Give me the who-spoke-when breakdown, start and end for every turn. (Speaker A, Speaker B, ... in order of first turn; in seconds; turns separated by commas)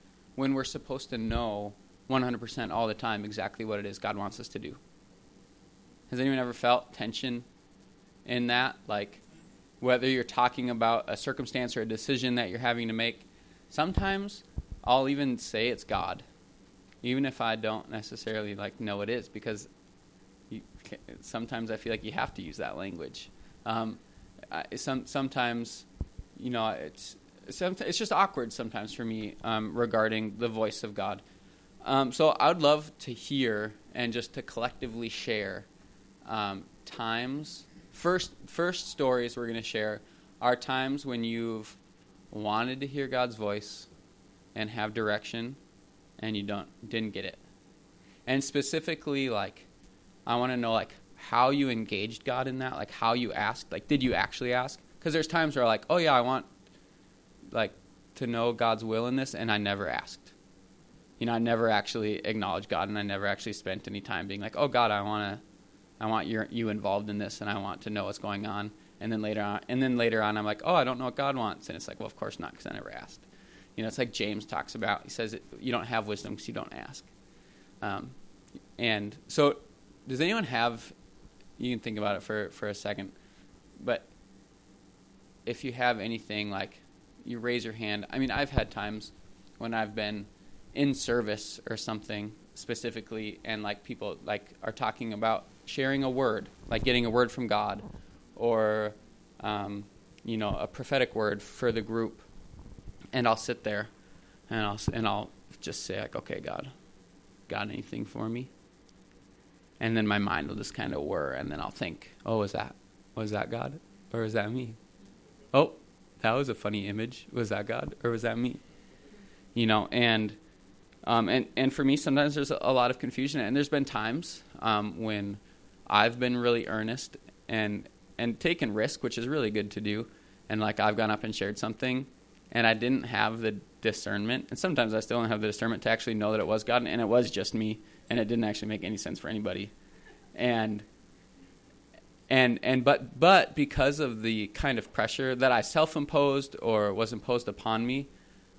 Speaker A: 0.3-4.8, Speaker A: 6.1-7.5, Speaker A: 8.2-9.2, Speaker A: 9.8-16.2, Speaker A: 17.0-19.7, Speaker A: 20.5-31.2, Speaker A: 31.8-35.6, Speaker A: 36.2-41.8, Speaker A: 42.3-43.9, Speaker A: 44.5-45.6, Speaker A: 46.2-47.4, Speaker A: 48.2-49.7, Speaker A: 50.2-56.5, Speaker A: 57.5-60.3, Speaker A: 61.2-65.4, Speaker A: 66.0-73.2, Speaker A: 73.8-77.1, Speaker A: 77.8-78.2, Speaker A: 78.8-80.9, Speaker A: 81.6-83.2, Speaker A: 83.8-84.1, Speaker A: 85.4-102.2, Speaker A: 103.1-103.9, Speaker A: 104.5-106.7, Speaker A: 107.5-108.5, Speaker A: 109.8-114.8, Speaker A: 115.5-118.6, Speaker A: 119.5-120.4, Speaker A: 121.0-139.7, Speaker A: 140.3-140.8, Speaker A: 142.3-148.1